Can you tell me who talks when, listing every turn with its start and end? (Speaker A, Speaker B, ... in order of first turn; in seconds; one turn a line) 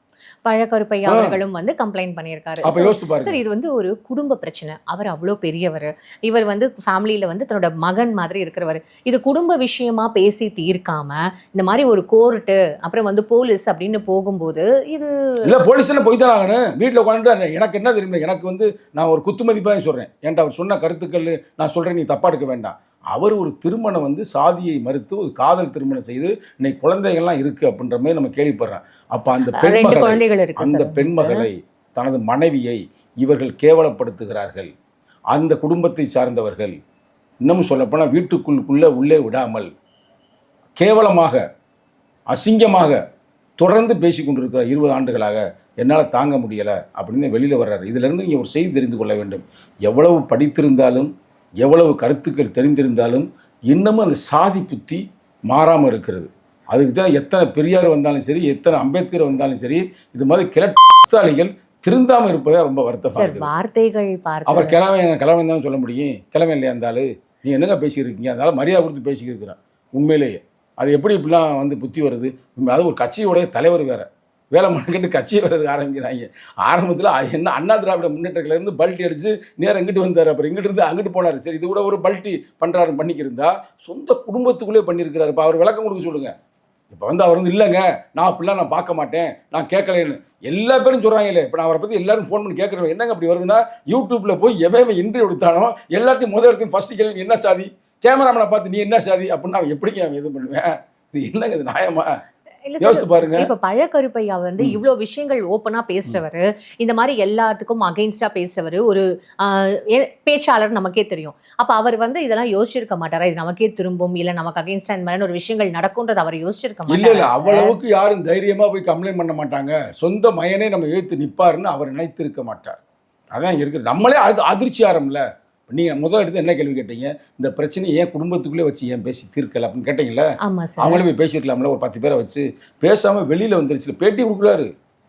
Speaker A: 0.5-15.5
Speaker B: 1.1-1.4
Speaker B: 2.6-3.4
Speaker B: 15.4-34.7
Speaker A: 29.6-31.5
Speaker B: 35.3-36.7
Speaker B: 37.4-39.7
Speaker B: 40.8-41.4
Speaker B: 42.3-43.0
Speaker B: 43.6-51.1
Speaker B: 51.6-63.5
Speaker A: 63.1-64.8
Speaker B: 64.5-86.3
Speaker B: 86.9-102.2
Speaker A: 102.7-117.7
Speaker B: 102.8-103.5
Speaker B: 116.9-122.8
Speaker B: 123.3-130.3
Speaker A: 130.4-131.0
Speaker B: 130.8-134.7